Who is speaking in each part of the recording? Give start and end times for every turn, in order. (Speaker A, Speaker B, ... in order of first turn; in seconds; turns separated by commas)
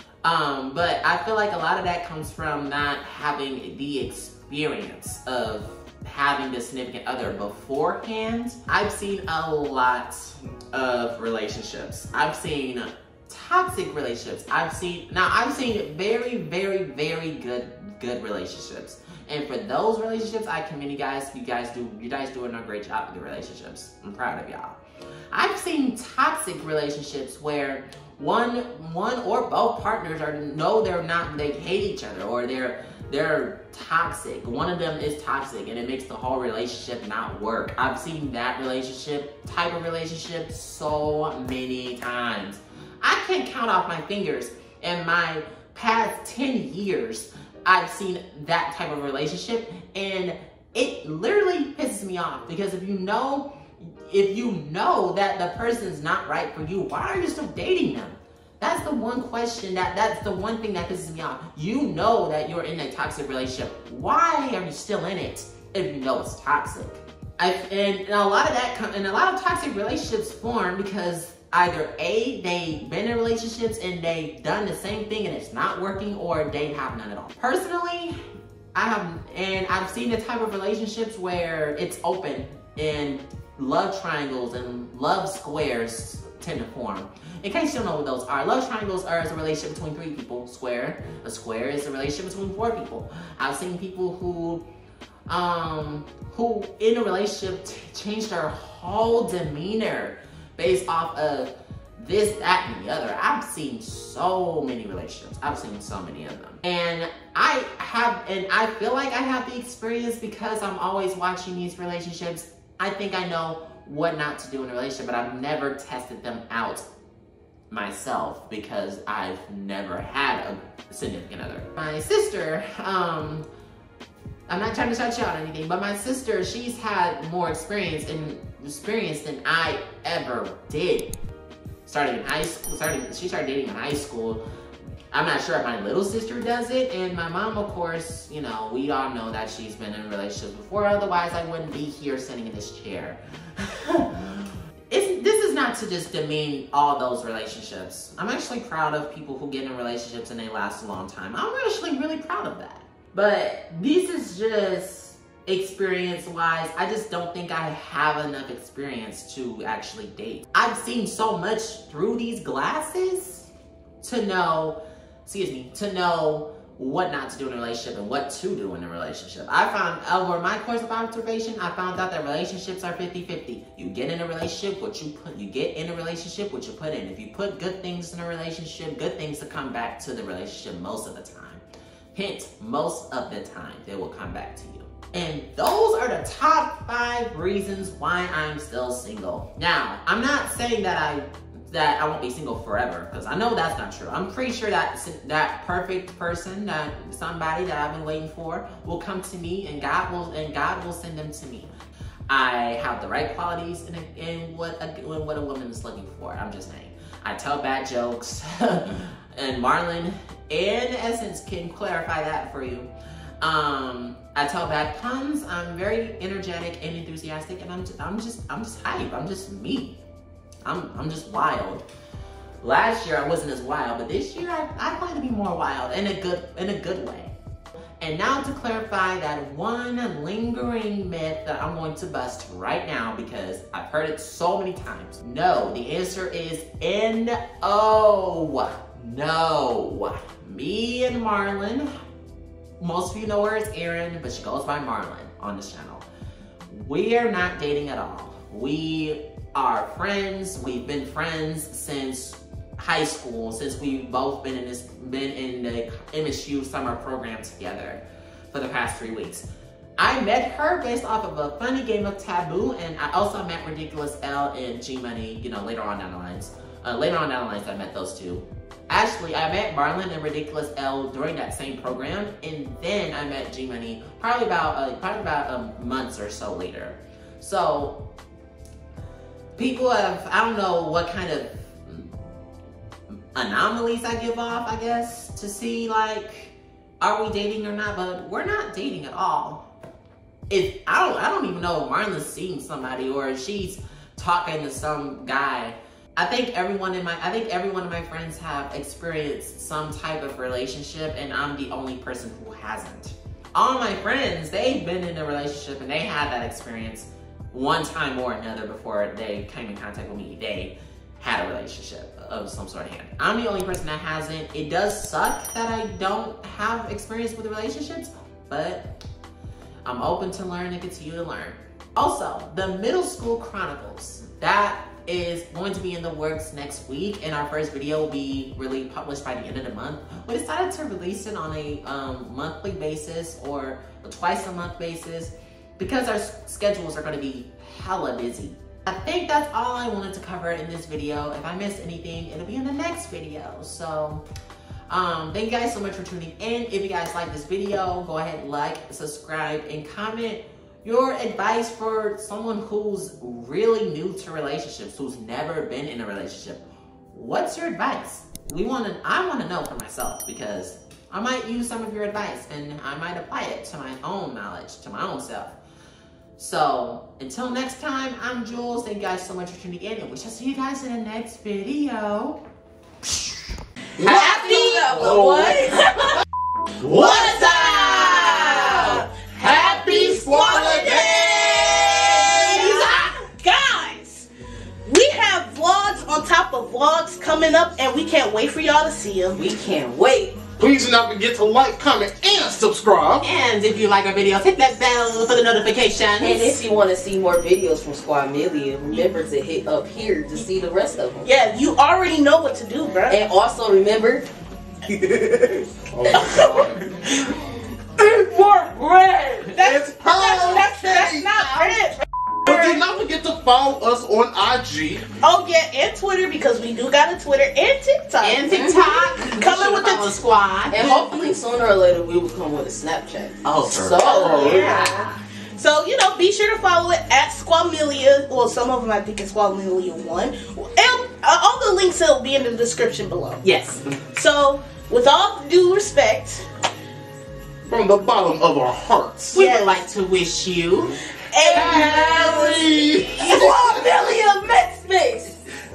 Speaker A: 0.2-24.8, Speaker A: 25.3-78.2, Speaker A: 78.7-94.6, Speaker A: 95.3-116.9, Speaker A: 117.7-123.5, Speaker A: 124.5-131.1, Speaker A: 131.8-134.4, Speaker A: 135.1-163.5, Speaker A: 164.0-201.7, Speaker A: 202.3-212.9, Speaker A: 213.4-220.0, Speaker A: 220.6-221.8, Speaker A: 222.6-227.3, Speaker A: 228.0-241.9, Speaker A: 242.8-246.1, Speaker A: 246.7-259.5, Speaker A: 260.0-278.1, Speaker A: 279.5-282.1, Speaker A: 283.4-289.7, Speaker A: 290.5-319.0, Speaker A: 319.9-344.2, Speaker A: 344.9-365.6, Speaker A: 366.4-372.4, Speaker A: 374.0-375.5, Speaker B: 374.0-375.6, Speaker C: 374.1-376.1, Speaker B: 376.8-377.4, Speaker A: 376.9-379.0, Speaker D: 376.9-384.3, Speaker C: 378.5-378.8, Speaker B: 379.4-382.2, Speaker A: 382.0-383.1, Speaker D: 384.9-389.4, Speaker C: 389.3-390.5, Speaker B: 390.6-393.2, Speaker A: 393.2-396.6, Speaker C: 396.2-401.3, Speaker D: 401.2-403.2, Speaker C: 403.1-404.2, Speaker C: 404.9-406.7, Speaker B: 405.9-406.9, Speaker D: 406.1-406.5, Speaker C: 408.0-409.5, Speaker B: 409.5-411.3, Speaker D: 409.5-412.8, Speaker A: 411.3-411.8, Speaker B: 412.4-415.1, Speaker D: 415.2-420.1, Speaker A: 418.2-421.1, Speaker C: 420.7-425.0, Speaker A: 423.4-425.1, Speaker D: 424.0-433.4, Speaker B: 424.1-424.8, Speaker A: 433.4-433.8, Speaker D: 434.1-436.5, Speaker B: 437.6-439.4, Speaker A: 439.3-443.3, Speaker D: 439.4-439.8, Speaker D: 441.3-442.7, Speaker B: 441.5-443.9, Speaker C: 443.2-445.4, Speaker D: 443.4-443.7